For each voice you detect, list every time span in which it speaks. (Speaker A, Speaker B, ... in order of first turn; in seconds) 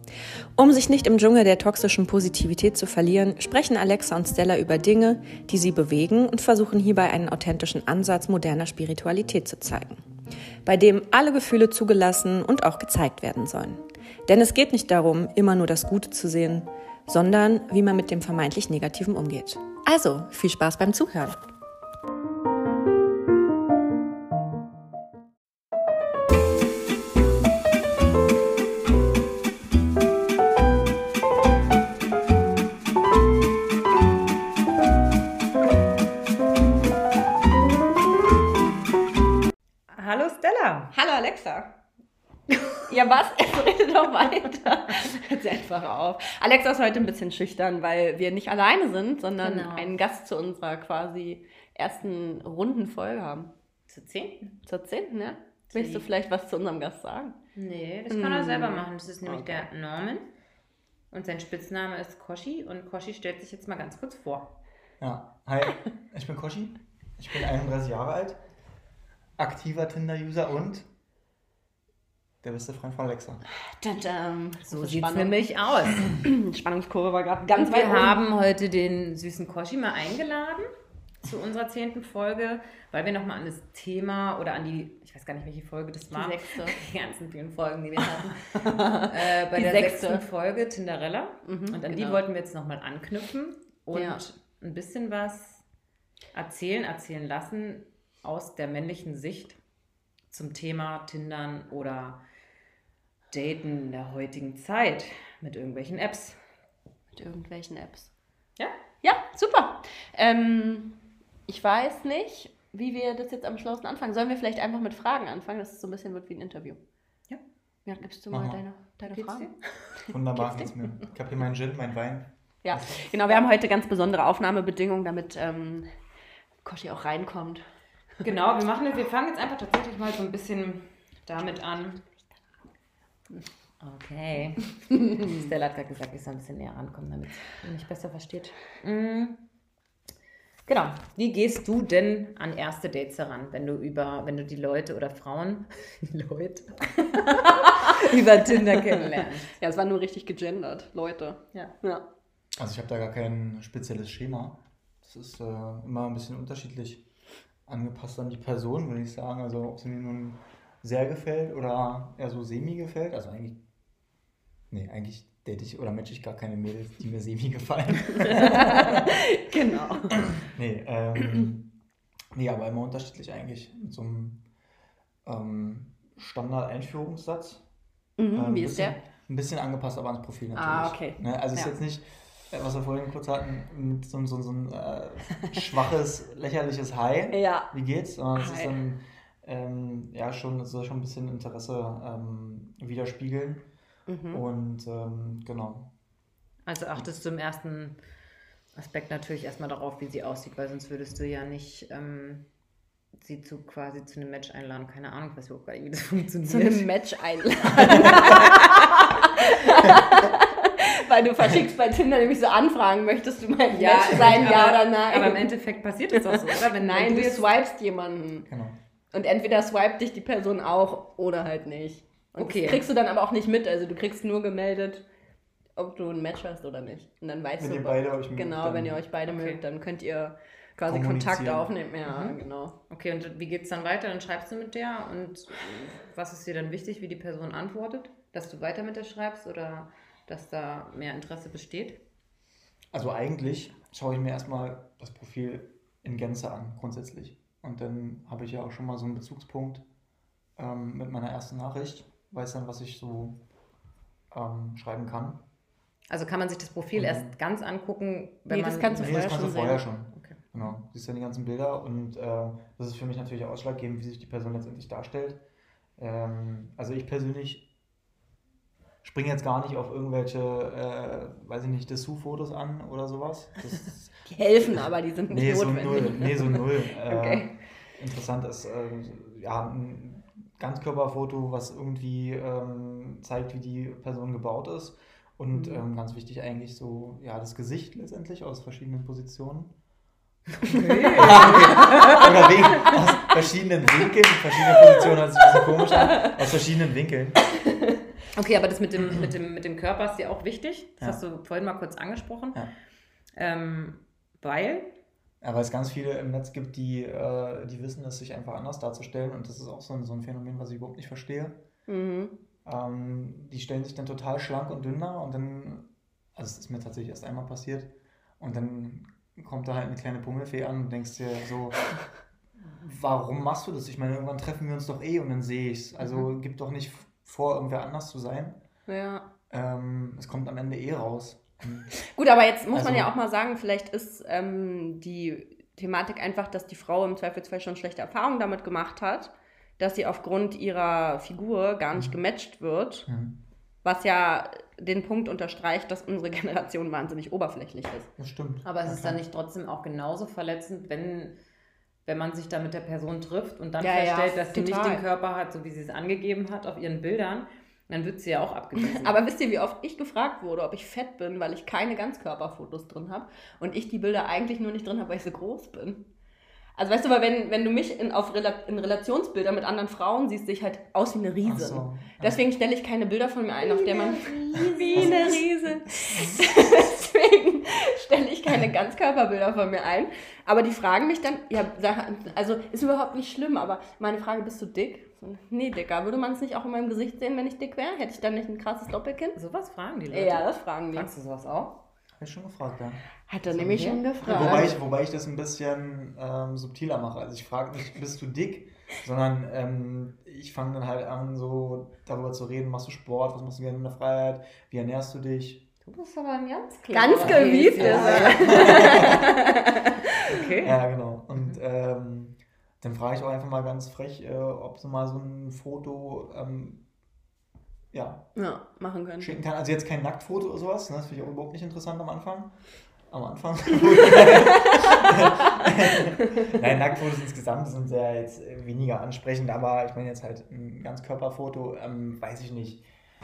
Speaker A: 0.6-10.0, 10.6-21.4
Speaker B: 39.9-40.9, 49.4-50.0, 53.9-54.5, 55.7-56.0, 57.5-60.3, 61.1-64.5, 74.7-76.1, 77.5-80.7, 81.2-88.5, 89.0-95.6, 96.3-99.6, 100.3-102.2, 103.3-106.4, 119.1-119.5, 128.2-132.0, 133.8-139.4, 140.7-149.5, 196.7-197.9, 198.7-202.4, 203.2-206.8, 207.8-208.5, 213.7-217.5, 222.4-222.8, 229.3-229.6, 232.1-232.4, 232.9-242.0, 256.1-260.4, 290.6-292.2, 298.3-302.6, 303.4-304.9, 348.6-351.4, 352.1-359.2, 373.6-375.4, 389.3-391.8, 393.7-394.7, 405.9-409.2, 410.2-410.8
Speaker C: 40.9-41.7, 42.8-53.5, 54.6-57.4, 58.1-59.7, 73.6-75.4, 75.9-78.2, 86.1-86.8, 88.1-90.2, 91.5-92.2, 93.9-94.2, 107.1-108.1, 109.0-111.0, 111.5-116.8, 117.8-120.8, 122.6-125.9, 126.6-127.6, 147.6-152.0, 168.1-170.2, 178.2-179.0, 180.5-181.7, 187.3-187.7, 188.3-188.8, 194.1-194.4, 206.5-215.5, 216.1-218.5, 219.1-225.0, 225.8-232.7, 258.5-259.8, 274.3-277.5, 285.5-285.8, 291.9-292.2, 295.8-296.3, 311.9-312.4, 328.9-329.3, 332.0-343.1, 343.8-348.1, 353.8-355.0, 358.8-366.0, 366.8-389.4, 390.1-391.1, 393.3-394.8, 406.9-410.3, 418.4-419.4
Speaker D: 65.0-68.4, 69.4-70.9, 72.4-73.4, 118.3-118.6, 120.1-123.1, 152.5-157.0, 157.7-163.6, 164.7-169.2, 170.1-171.7, 172.3-174.4, 175.2-177.6, 178.3-193.6, 194.3-195.9, 214.1-214.6, 218.5-218.8, 227.6-229.0, 230.8-231.7, 242.9-249.8, 250.6-253.4, 254.3-255.4, 256.9-257.3, 259.0-265.4, 266.0-267.6, 269.0-289.7, 290.6-297.4, 305.4-311.6, 312.6-321.9, 322.6-328.6, 329.5-331.9, 332.7-333.1, 343.1-343.4, 348.2-349.2, 371.4-372.4, 374.9-375.4, 376.1-376.4, 392.2-405.6, 407.1-409.3, 410.6-416.8, 417.9-418.2, 419.2-422.5, 423.1-432.8